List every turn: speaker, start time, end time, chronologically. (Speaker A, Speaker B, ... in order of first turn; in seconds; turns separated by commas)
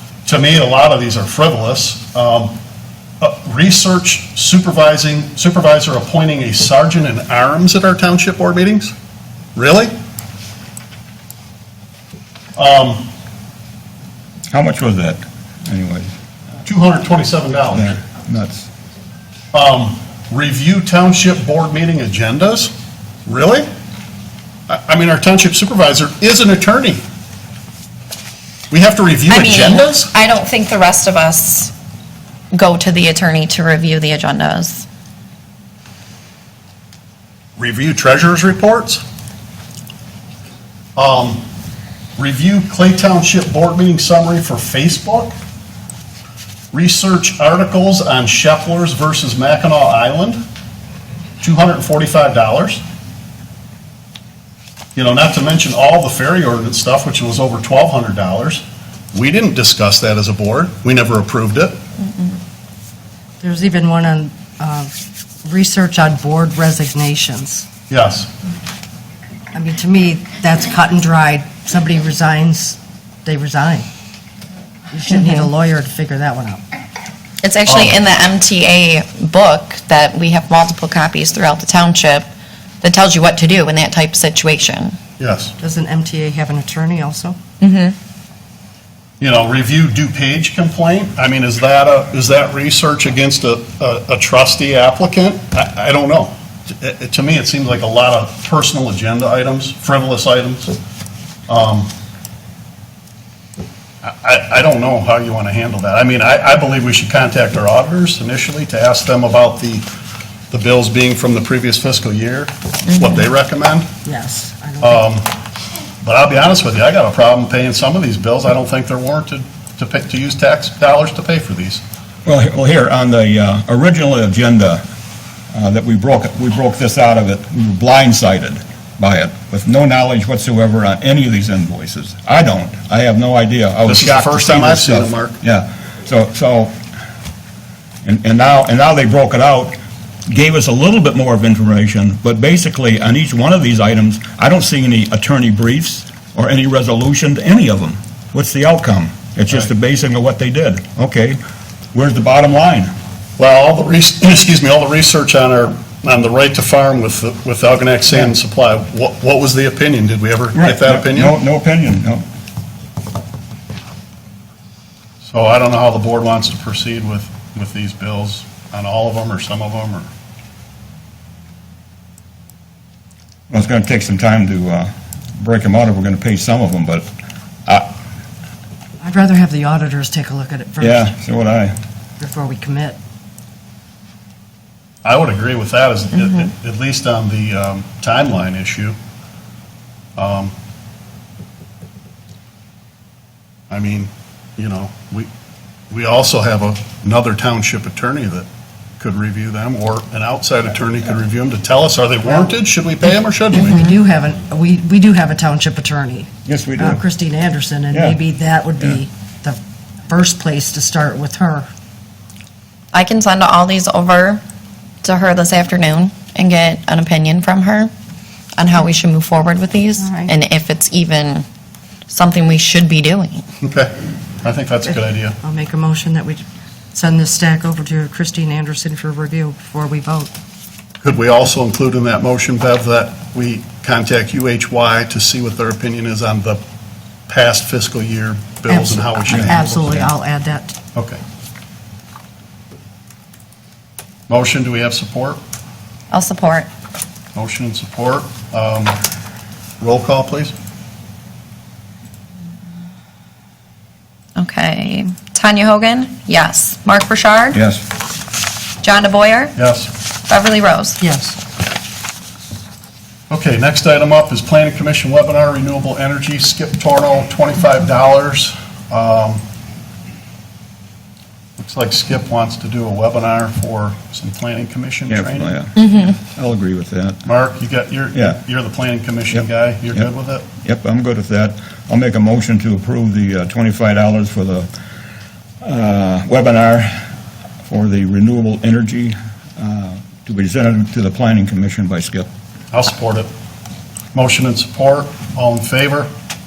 Speaker A: 0.3-2.6, Speaker A: 3.2-8.9, Speaker A: 9.6-9.9, Speaker A: 12.6-13.1, Speaker B: 14.5-16.1, Speaker A: 16.6-18.0, Speaker B: 17.7-18.7, Speaker A: 19.5-22.7, Speaker A: 23.3-23.7, Speaker A: 24.7-27.0, Speaker A: 28.7-30.1, Speaker C: 29.3-31.7, Speaker C: 32.5-34.9, Speaker A: 37.6-39.0, Speaker A: 41.0-41.5, Speaker A: 42.2-45.3, Speaker A: 46.7-50.4, Speaker A: 51.4-52.8, Speaker A: 55.0-61.8, Speaker D: 63.4-64.9, Speaker D: 65.4-67.7, Speaker A: 67.9-68.3, Speaker D: 69.5-73.9, Speaker D: 74.9-76.6, Speaker C: 75.1-75.5, Speaker C: 77.4-82.3, Speaker A: 77.7-78.0, Speaker C: 82.8-85.0, Speaker A: 85.2-85.5, Speaker D: 85.6-87.4, Speaker C: 87.6-88.0, Speaker A: 89.2-100.7, Speaker A: 101.5-101.9, Speaker A: 104.0-109.9, Speaker A: 110.5-113.9, Speaker D: 114.0-115.1, Speaker A: 114.8-115.4, Speaker A: 116.0-121.8, Speaker B: 122.3-124.8, Speaker B: 125.5-136.7, Speaker A: 133.9-135.4, Speaker B: 138.1-151.4, Speaker B: 151.9-152.9, Speaker A: 153.4-161.3, Speaker B: 160.5-162.2, Speaker A: 165.2-170.1, Speaker B: 173.5-177.1, Speaker D: 179.0-181.1, Speaker B: 180.8-181.7, Speaker D: 182.2-183.0, Speaker A: 185.0-189.0, Speaker A: 190.2-190.5, Speaker A: 193.7-195.3, Speaker A: 195.9-198.5, Speaker A: 199.0-203.9, Speaker D: 203.5-211.7, Speaker B: 206.5-207.0, Speaker B: 207.9-208.2, Speaker C: 212.9-214.4, Speaker C: 215.0-217.9, Speaker C: 218.6-221.5, Speaker D: 220.0-220.3, Speaker C: 222.1-223.4, Speaker A: 223.6-225.4, Speaker D: 225.4-230.3, Speaker A: 231.0-236.6, Speaker A: 237.3-240.1, Speaker D: 238.7-240.8, Speaker B: 239.3-240.1, Speaker A: 240.9-241.2, Speaker A: 244.3-245.4, Speaker C: 246.1-246.7, Speaker A: 247.3-249.0, Speaker A: 249.8-250.5, Speaker C: 254.4-257.6, Speaker B: 257.5-257.9, Speaker C: 258.8-259.6, Speaker A: 259.6-259.9, Speaker C: 260.3-261.0, Speaker D: 261.0-261.4, Speaker A: 263.3-269.4, Speaker A: 271.6-275.6, Speaker B: 275.1-277.3, Speaker C: 275.8-276.1, Speaker A: 277.2-280.4, Speaker B: 278.1-278.4, Speaker B: 279.3-280.1, Speaker B: 280.6-284.7, Speaker B: 285.6-287.0, Speaker B: 287.7-292.3, Speaker A: 292.7-293.3, Speaker A: 294.1-296.1